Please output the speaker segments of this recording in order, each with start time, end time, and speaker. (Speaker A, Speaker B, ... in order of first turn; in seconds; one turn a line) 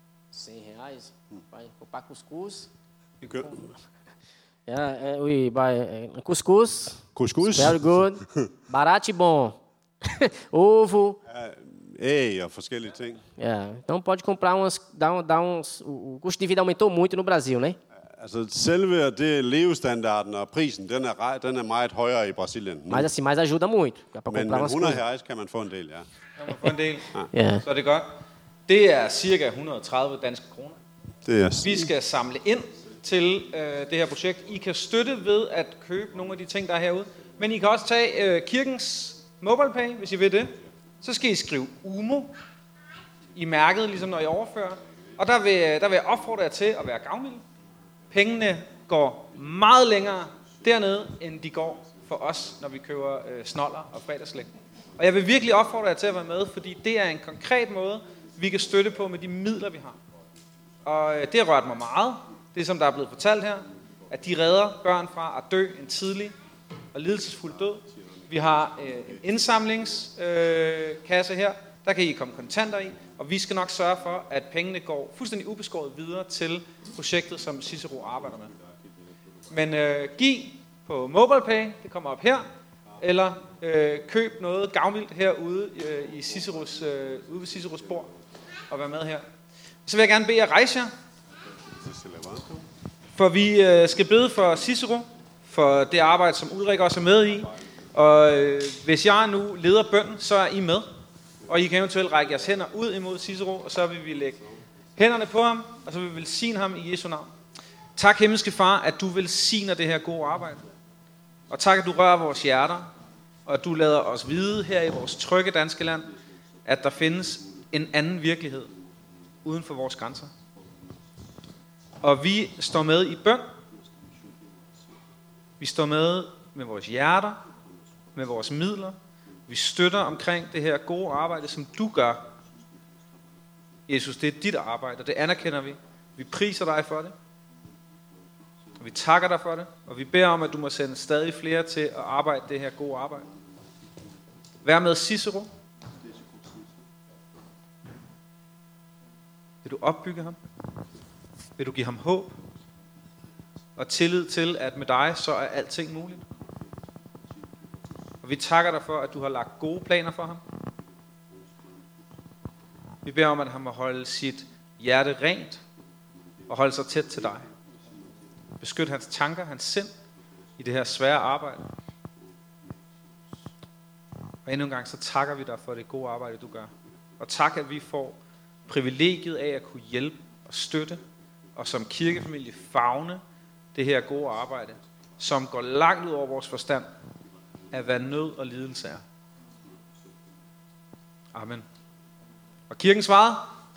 Speaker A: 0.3-2.7
Speaker B: 3.2-3.7
Speaker A: 4.7-11.2
Speaker B: 7.2-8.5
Speaker B: 11.3-13.2
Speaker A: 13.4-17.8
Speaker B: 18.1-23.1
Speaker A: 22.9-25.0
Speaker B: 24.3-26.1
Speaker C: 26.4-27.1
Speaker A: 27.3-27.6
Speaker C: 27.6-28.1
Speaker C: 28.7-30.8
Speaker B: 31.3-31.9
Speaker C: 31.6-42.3
Speaker C: 43.4-47.4
Speaker C: 48.1-60.0
Speaker C: 60.9-66.3
Speaker C: 66.9-78.5
Speaker C: 79.5-82.5
Speaker C: 83.0-88.1
Speaker C: 88.7-89.2
Speaker C: 89.9-90.9
Speaker B: 91.8-92.6
Speaker C: 93.2-100.9
Speaker C: 101.5-104.4
Speaker C: 105.0-107.3
Speaker C: 108.0-110.6
Speaker C: 111.5-112.9
Speaker C: 113.5-116.1
Speaker C: 116.7-118.7
Speaker C: 119.5-120.3
Speaker C: 122.0-123.5
Speaker C: 125.6-127.4
Speaker C: 128.2-129.0
Speaker C: 129.5-132.3
Speaker C: 133.9-137.1
Speaker C: 138.8-143.3
Speaker C: 144.6-145.5
Speaker C: 149.6-150.4
Speaker C: 151.6-152.4
Speaker C: 153.8-156.2
Speaker C: 158.2-160.4
Speaker C: 163.1-165.6
Speaker C: 166.5-167.5
Speaker C: 168.6-169.9
Speaker C: 170.6-171.6
Speaker C: 174.5-181.0
Speaker C: 181.6-183.2
Speaker C: 183.8-186.9
Speaker C: 187.7-189.0
Speaker C: 191.3-191.7
Speaker C: 192.7-193.5